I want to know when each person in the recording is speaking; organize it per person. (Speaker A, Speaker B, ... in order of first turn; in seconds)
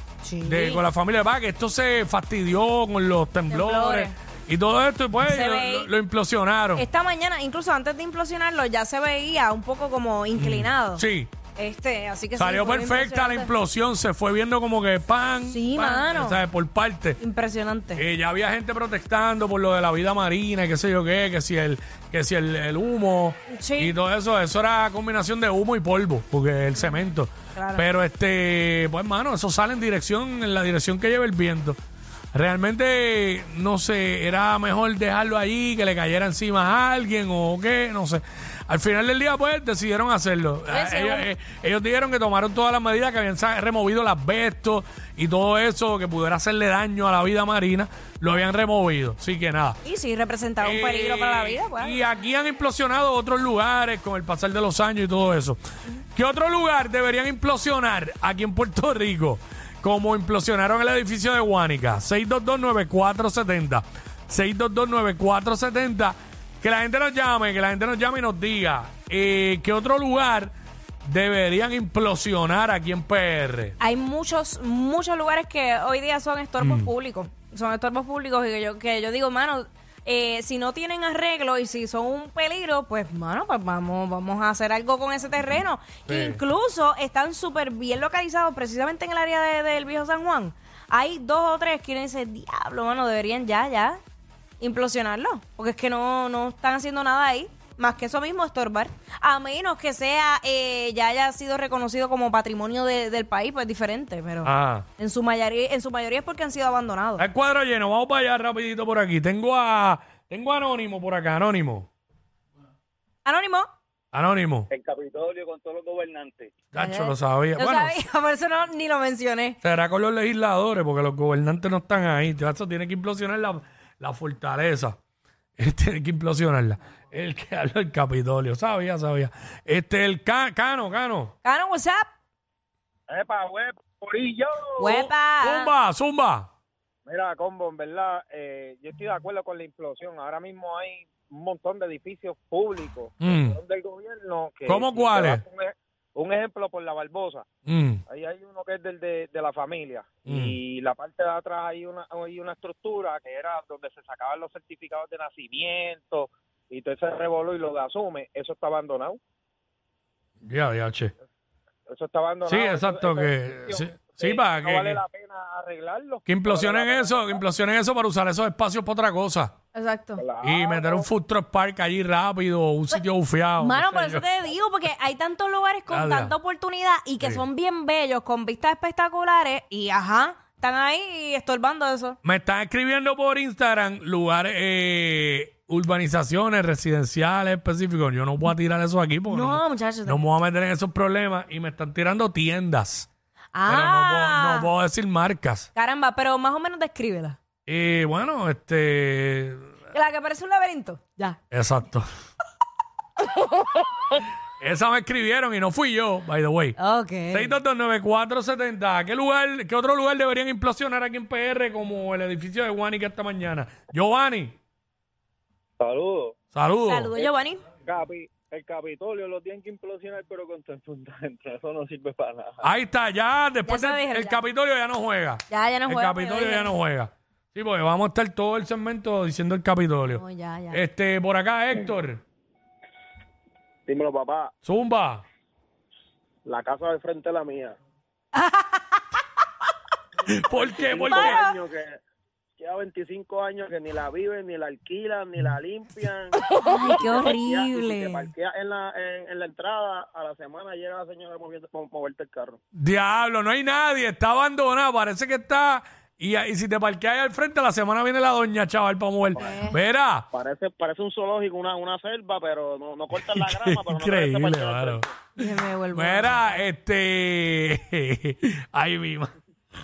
Speaker A: 0.2-0.8, 3.5-4.2, 5.2-5.9, 6.8-11.0, 11.6-13.5, 15.5-16.4, 17.2-18.0, 23.5-24.0, 27.5-27.8, 40.7-41.3, 49.8-52.0, 73.8-94.0, 94.6-107.2, 113.2-113.7, 116.8-119.6, 131.4-132.1, 134.8-135.7, 169.7-170.2, 173.6-182.2, 189.3-190.2, 193.5-194.7, 195.7-197.4, 199.9-201.4, 206.8-207.6, 216.8-217.6, 223.7-224.4, 225.5-226.8, 230.1-230.8, 238.3-239.0, 241.1-241.6, 246.5-248.3, 259.4-259.8, 265.4-266.6
Speaker B: 0.4-6.8, 10.3-11.3, 12.3-17.2, 17.9-31.8, 32.3-49.8, 50.6-55.6, 56.1-73.8, 76.6-76.9, 86.1-86.4, 104.4-104.9, 107.2-111.9, 114.1-114.7, 116.7-118.0, 119.6-125.0, 125.6-131.3, 134.8-136.5, 143.2-143.6, 144.7-145.4, 147.7-148.0, 150.2-150.6, 160.4-161.1, 162.4-165.0, 166.3-169.5, 170.4-174.2, 175.9-176.3, 182.2-193.1, 193.7-195.7, 197.7-199.7, 201.5-202.1, 204.6-206.8, 207.3-214.6, 216.5-217.1, 222.6-232.2, 234.6-235.2, 240.3-241.4, 252.7-260.3, 263.2-265.0, 265.9-269.3
Speaker C: 114.7-116.5, 133.1-134.9, 137.1-147.4, 148.1-159.2, 161.9-167.3, 170.2-171.1, 215.8-216.3, 217.8-222.6, 233.8-234.5, 236.4-237.8, 240.5-242.0, 242.6-252.6, 260.3-265.1